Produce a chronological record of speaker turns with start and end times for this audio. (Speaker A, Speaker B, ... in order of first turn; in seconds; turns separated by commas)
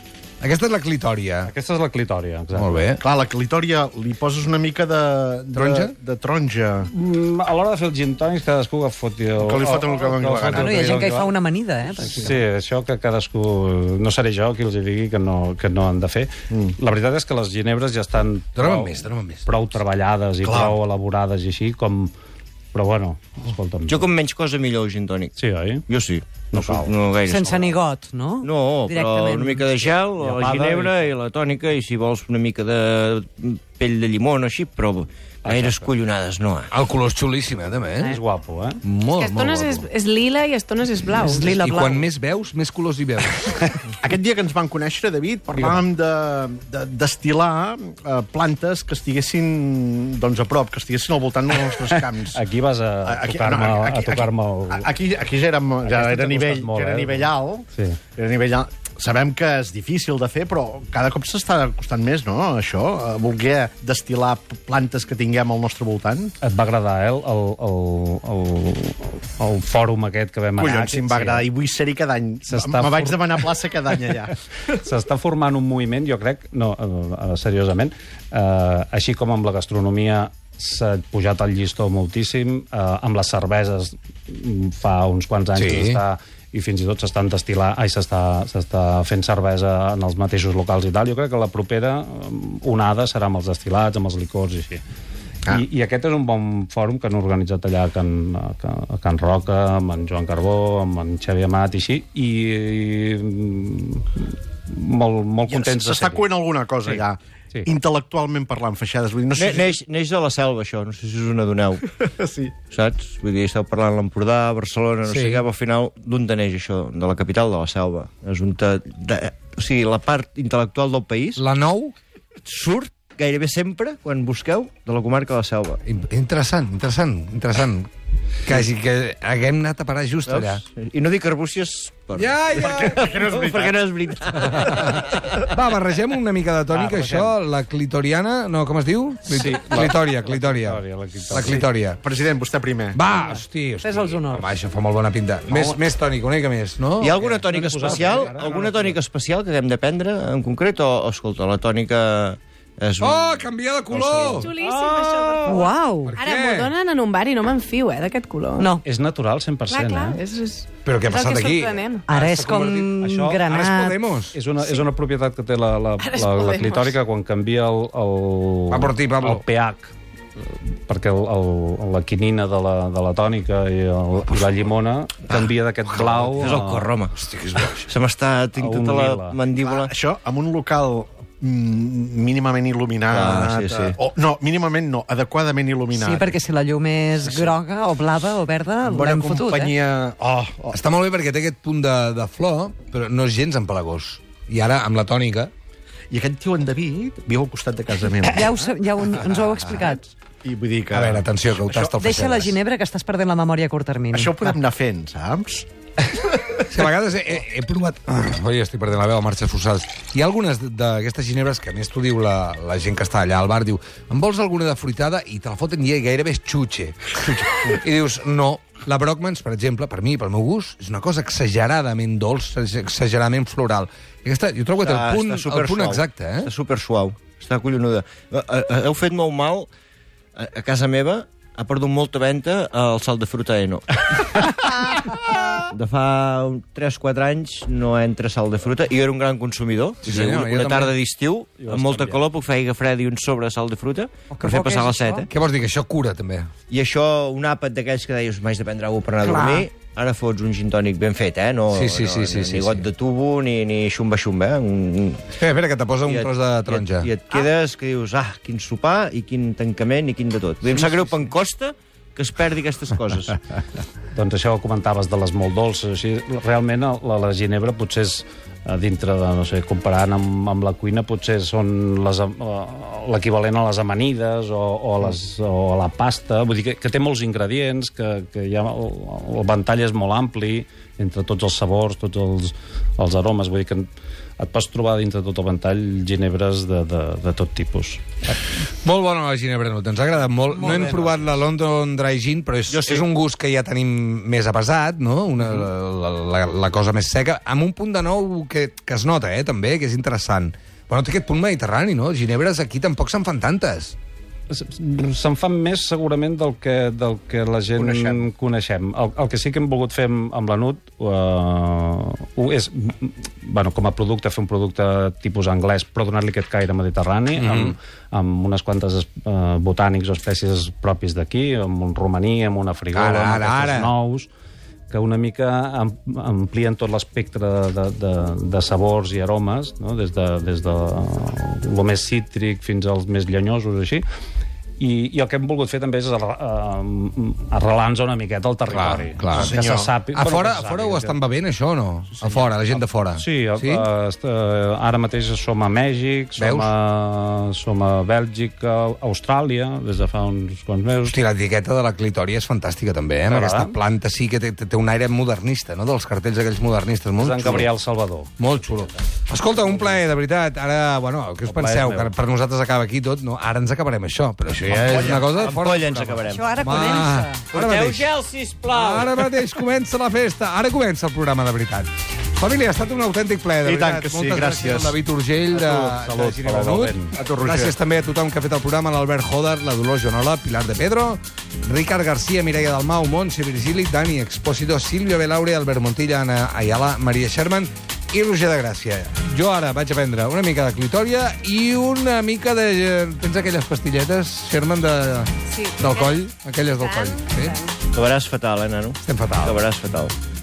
Speaker A: 0.4-1.5, Speaker B: 1.4-3.0, Speaker A: 2.6-3.0, Speaker C: 3.0-6.9, Speaker A: 5.6-5.9, Speaker B: 6.9-11.3, Speaker C: 9.4-11.0, Speaker D: 10.5-12.4, Speaker B: 12.0-22.1, Speaker A: 18.6-19.5, Speaker C: 20.4-20.8, Speaker B: 22.7-24.1, Speaker E: 23.9-25.4, Speaker B: 25.4-25.9, Speaker E: 25.9-27.8, Speaker B: 26.5-26.9, Speaker D: 27.3-29.7, Speaker E: 28.4-36.7, Speaker B: 30.2-31.1, Speaker B: 35.4-35.9, Speaker A: 36.7-38.2, Speaker B: 38.0-38.8, Speaker A: 38.8-39.9, Speaker F: 39.2-41.6, Speaker D: 41.2-42.1, Speaker A: 41.3-43.7, Speaker C: 44.0-52.4, Speaker B: 51.7-54.9, Speaker C: 53.0-66.3, Speaker B: 55.8-58.0, Speaker B: 66.4-71.5, Speaker C: 70.6-74.3, Speaker B: 72.5-73.5, Speaker B: 74.7-94.8, Speaker A: 85.6-86.0, Speaker B: 95.5-106.3, Speaker C: 105.5-109.8, Speaker E: 109.4-112.0, Speaker C: 112.0-112.5, Speaker E: 112.7-121.4, Speaker A: 115.0-115.4, Speaker A: 121.4-122.0, Speaker E: 122.5-125.8, Speaker A: 125.8-127.9, Speaker A: 128.4-130.6, Speaker E: 130.3-135.5, Speaker A: 132.2-133.0, Speaker C: 132.6-133.8, Speaker A: 134.6-142.0, Speaker B: 136.7-137.3, Speaker B: 139.3-141.7, Speaker C: 142.0-143.0, Speaker A: 142.9-147.2, Speaker D: 143.1-144.6, Speaker E: 147.0-153.3, Speaker B: 147.1-149.0, Speaker A: 153.0-154.5, Speaker F: 154.3-158.7, Speaker B: 154.6-155.6, Speaker D: 155.4-156.2, Speaker A: 156.0-156.7, Speaker B: 158.8-160.2, Speaker F: 159.7-162.1, Speaker A: 160.8-164.4, Speaker D: 162.1-164.0, Speaker B: 163.0-163.4, Speaker B: 164.3-169.9, Speaker F: 166.0-166.9, Speaker A: 168.7-169.4, Speaker B: 170.5-176.9, Speaker A: 176.1-176.7, Speaker E: 176.4-177.2, Speaker A: 177.3-177.8, Speaker E: 177.9-179.9, Speaker B: 178.6-179.4, Speaker C: 179.5-186.4, Speaker E: 183.1-184.0, Speaker D: 185.9-189.8, Speaker C: 187.2-187.5, Speaker C: 188.8-190.8, Speaker A: 190.7-195.5, Speaker C: 196.1-198.7, Speaker D: 198.2-200.1, Speaker C: 200.4-202.0, Speaker A: 200.9-202.6, Speaker D: 201.9-204.5, Speaker C: 204.1-205.7, Speaker A: 206.7-226.5, Speaker E: 224.8-229.7, Speaker E: 230.4-234.5, Speaker E: 235.7-245.3, Speaker A: 240.0-241.0, Speaker B: 241.6-242.2, Speaker D: 244.3-245.3, Speaker A: 245.3-246.5, Speaker E: 246.7-255.3, Speaker A: 251.7-252.9, Speaker A: 255.3-257.1, Speaker E: 256.1-263.4, Speaker B: 264.1-288.4, Speaker A: 288.8-303.9, Speaker D: 290.5-291.1, Speaker E: 292.7-293.1, Speaker B: 304.5-324.3, Speaker C: 307.8-308.3, Speaker A: 317.4-317.8, Speaker A: 322.9-323.9, Speaker B: 324.9-334.1, Speaker B: 334.8-341.2, Speaker A: 338.7-339.6, Speaker C: 339.3-339.9, Speaker A: 340.1-343.9, Speaker B: 343.2-351.2, Speaker A: 346.4-346.7, Speaker A: 351.1-357.7, Speaker B: 353.3-353.8, Speaker B: 357.2-358.9, Speaker A: 358.4-368.1, Speaker B: 359.5-360.0, Speaker B: 361.5-362.1, Speaker C: 364.6-365.3, Speaker E: 364.9-369.3, Speaker D: 366.3-367.5, Speaker A: 368.7-397.6, Speaker C: 373.6-375.0, Speaker C: 375.5-376.5, Speaker B: 376.1-377.1, Speaker C: 377.1-377.7, Speaker F: 395.5-397.7, Speaker E: 397.9-400.1, Speaker A: 399.0-399.6